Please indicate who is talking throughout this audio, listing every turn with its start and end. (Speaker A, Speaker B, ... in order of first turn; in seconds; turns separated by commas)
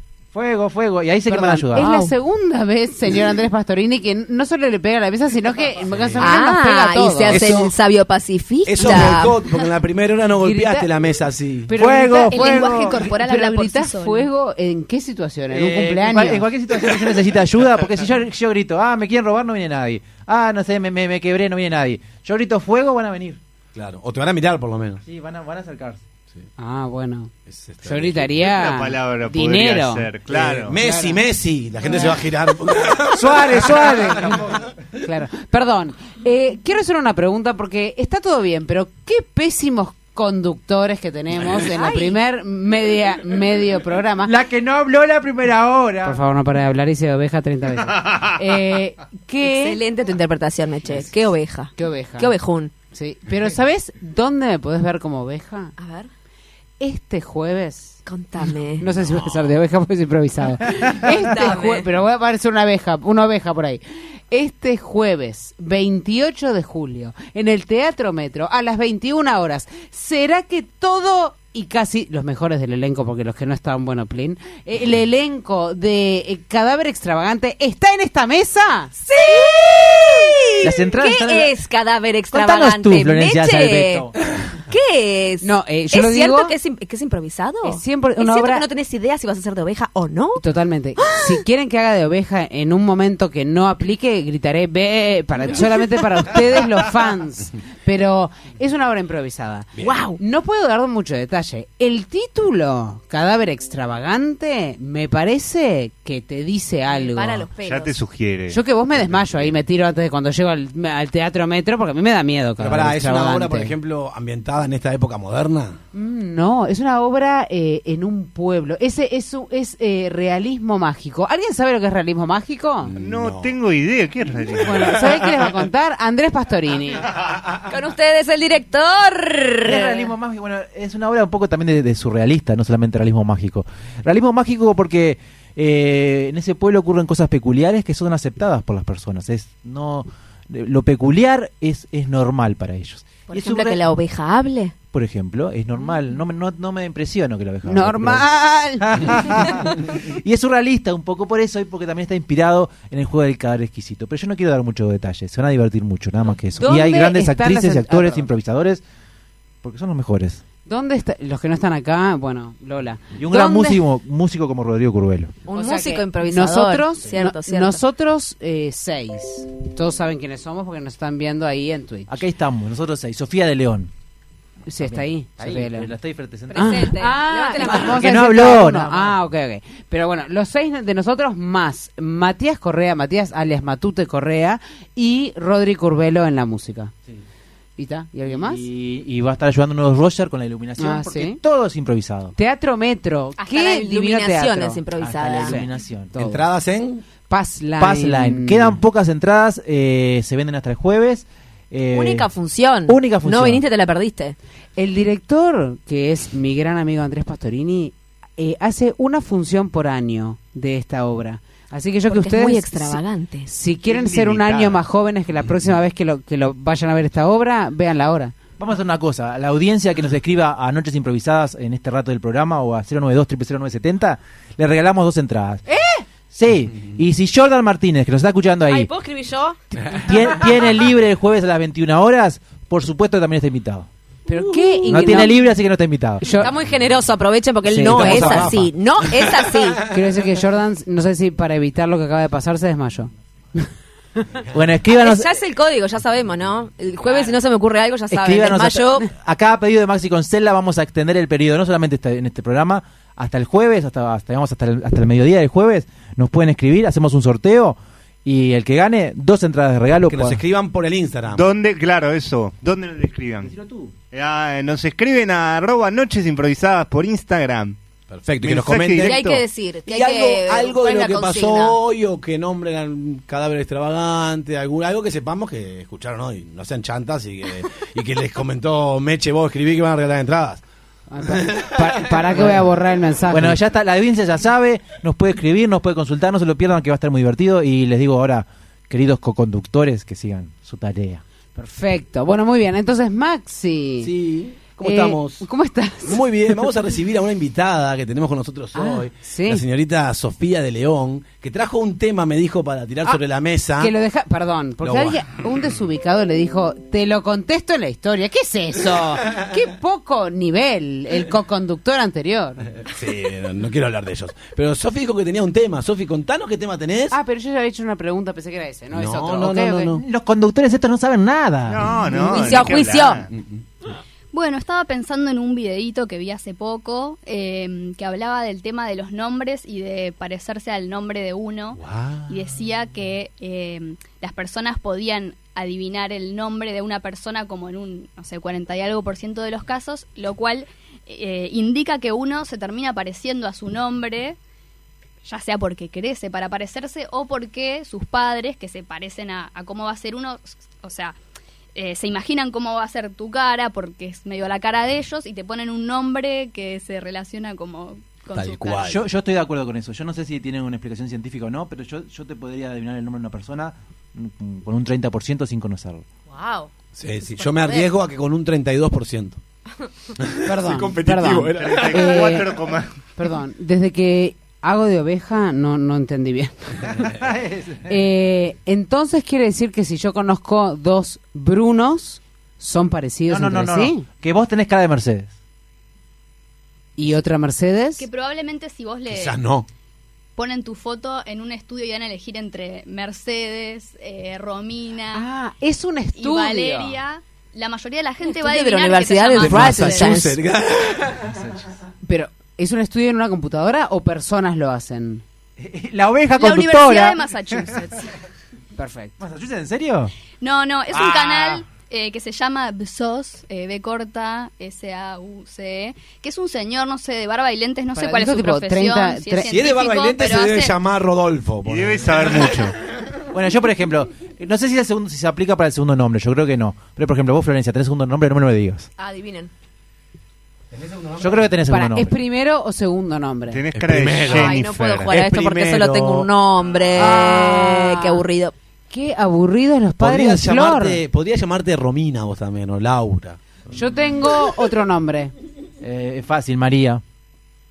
Speaker A: 0.3-1.9, Speaker B: 1.3-7.5, Speaker C: 1.8-2.1, Speaker D: 5.8-6.3, Speaker C: 6.2-9.4, Speaker D: 7.3-7.7, Speaker D: 8.7-11.7, Speaker B: 10.4-10.9, Speaker B: 11.7-16.5, Speaker A: 11.8-13.0, Speaker E: 12.3-14.3, Speaker A: 15.5-23.4, Speaker D: 23.7-25.0, Speaker A: 25.1-26.1, Speaker B: 26.6-27.3, Speaker D: 27.5-28.4, Speaker B: 27.8-30.1, Speaker F: 28.4-30.8, Speaker D: 30.3-34.4, Speaker B: 30.7-31.2, Speaker B: 31.9-32.2, Speaker B: 33.1-34.3, Speaker A: 33.4-34.6, Speaker B: 35.0-44.3, Speaker C: 41.6-42.2, Speaker A: 44.2-46.2, Speaker B: 46.0-49.8, Speaker C: 49.4-52.7, Speaker B: 51.8-52.4, Speaker B: 52.9-55.8, Speaker C: 55.8-56.1, Speaker B: 56.8-58.0, Speaker C: 58.1-58.9, Speaker B: 58.8-79.4, Speaker C: 61.0-61.9, Speaker C: 79.0-84.1, Speaker A: 80.6-81.5, Speaker A: 82.3-84.2, Speaker C: 84.7-90.4, Speaker B: 85.4-86.5, Speaker B: 87.6-88.7, Speaker B: 90.4-107.5, Speaker C: 91.0-91.4, Speaker D: 99.7-100.1, Speaker C: 99.8-100.2, Speaker C: 106.9-108.0, Speaker F: 107.6-108.6, Speaker B: 108.5-113.8, Speaker D: 109.0-109.5, Speaker D: 112.6-115.8, Speaker B: 115.9-122.9, Speaker D: 122.8-123.5, Speaker F: 123.0-125.0, Speaker B: 124.6-127.1, Speaker C: 127.7-130.1, Speaker A: 129.7-143.8, Speaker C: 143.3-144.7, Speaker A: 144.9-148.3, Speaker B: 147.7-149.6, Speaker A: 148.8-158.8, Speaker B: 156.6-158.3, Speaker A: 159.6-160.4, Speaker B: 160.7-163.8, Speaker A: 163.2-165.3, Speaker C: 165.5-167.8, Speaker B: 165.5-172.1, Speaker A: 172.1-173.9, Speaker B: 174.7-175.9, Speaker A: 174.8-177.0, Speaker C: 176.5-178.4, Speaker B: 176.5-186.9, Speaker A: 177.6-179.2, Speaker B: 187.8-188.7, Speaker A: 188.3-192.3, Speaker B: 190.8-191.4, Speaker B: 192.4-194.8, Speaker C: 193.4-195.6, Speaker A: 195.0-196.1, Speaker B: 195.4-196.4, Speaker D: 196.2-197.0, Speaker B: 197.3-198.8, Speaker A: 197.8-202.3, Speaker C: 201.9-204.4, Speaker A: 202.9-203.6, Speaker B: 204.8-218.3, Speaker C: 212.1-213.5, Speaker D: 213.8-214.8, Speaker A: 218.6-225.6, Speaker B: 225.7-226.0, Speaker A: 226.3-228.9, Speaker C: 228.7-229.6, Speaker A: 229.8-233.9, Speaker B: 234.3-235.4, Speaker A: 234.9-236.3, Speaker B: 236.2-236.5, Speaker C: 236.3-239.9, Speaker A: 237.7-238.6, Speaker D: 237.7-239.6, Speaker B: 239.9-243.7, Speaker A: 244.5-245.3, Speaker C: 244.9-249.1, Speaker A: 248.1-260.4, Speaker D: 260.1-261.5, Speaker F: 261.3-263.5, Speaker A: 263.4-263.9, Speaker F: 264.1-267.8, Speaker D: 268.1-269.2, Speaker F: 268.4-269.4, Speaker C: 269.0-271.8, Speaker D: 269.9-280.6, Speaker B: 281.1-283.6, Speaker D: 281.3-282.1, Speaker A: 283.3-291.2, Speaker B: 291.6-294.1, Speaker D: 294.0-295.5, Speaker B: 294.8-296.2, Speaker D: 296.1-303.9, Speaker B: 298.8-299.6, Speaker B: 303.8-312.7, Speaker D: 304.8-305.2, Speaker D: 312.8-317.2, Speaker B: 317.1-319.9, Speaker D: 318.9-320.0, Speaker A: 320.0-322.6, Speaker F: 321.7-323.3, Speaker C: 322.2-323.2, Speaker D: 323.3-323.6, Speaker E: 324.3-344.4, Speaker D: 331.8-332.4, Speaker E: 345.2-351.2, Speaker E: 351.8-358.9, Speaker D: 358.3-359.1, Speaker A: 358.8-366.0, Speaker C: 366.3-366.7, Speaker D: 366.9-369.4, Speaker C: 367.3-367.9, Speaker D: 370.2-372.4, Speaker B: 370.4-372.6, Speaker F: 371.6-373.0, Speaker B: 373.2-377.1, Speaker A: 377.0-378.0, Speaker B: 377.9-384.1, Speaker A: 383.3-385.3, Speaker B: 387.0-388.1, Speaker E: 388.0-389.4, Speaker D: 389.1-389.7, Speaker E: 390.4-395.3, Speaker B: 395.1-397.0, Speaker E: 396.2-400.2, Speaker C: 398.2-400.4, Speaker D: 399.4-401.4, Speaker A: 401.4-401.7, Speaker B: 402.0-405.2, Speaker A: 405.6-407.9, Speaker E: 406.4-408.1, Speaker B: 408.8-409.2, Speaker A: 409.2-410.1, Speaker E: 410.4-420.7, Speaker A: 410.9-411.6, Speaker B: 417.9-419.5, Speaker D: 419.4-422.7, Speaker F: 421.6-422.8, Speaker A: 423.3-428.9, Speaker C: 429.0-429.5, Speaker D: 430.7-431.5, Speaker A: 431.2-432.2, Speaker B: 431.7-433.6, Speaker F: 433.5-435.3, Speaker D: 433.7-436.3, Speaker C: 434.2-438.5, Speaker B: 436.9-438.2, Speaker B: 438.9-441.0, Speaker D: 440.0-443.4, Speaker B: 443.7-445.3, Speaker A: 445.8-447.0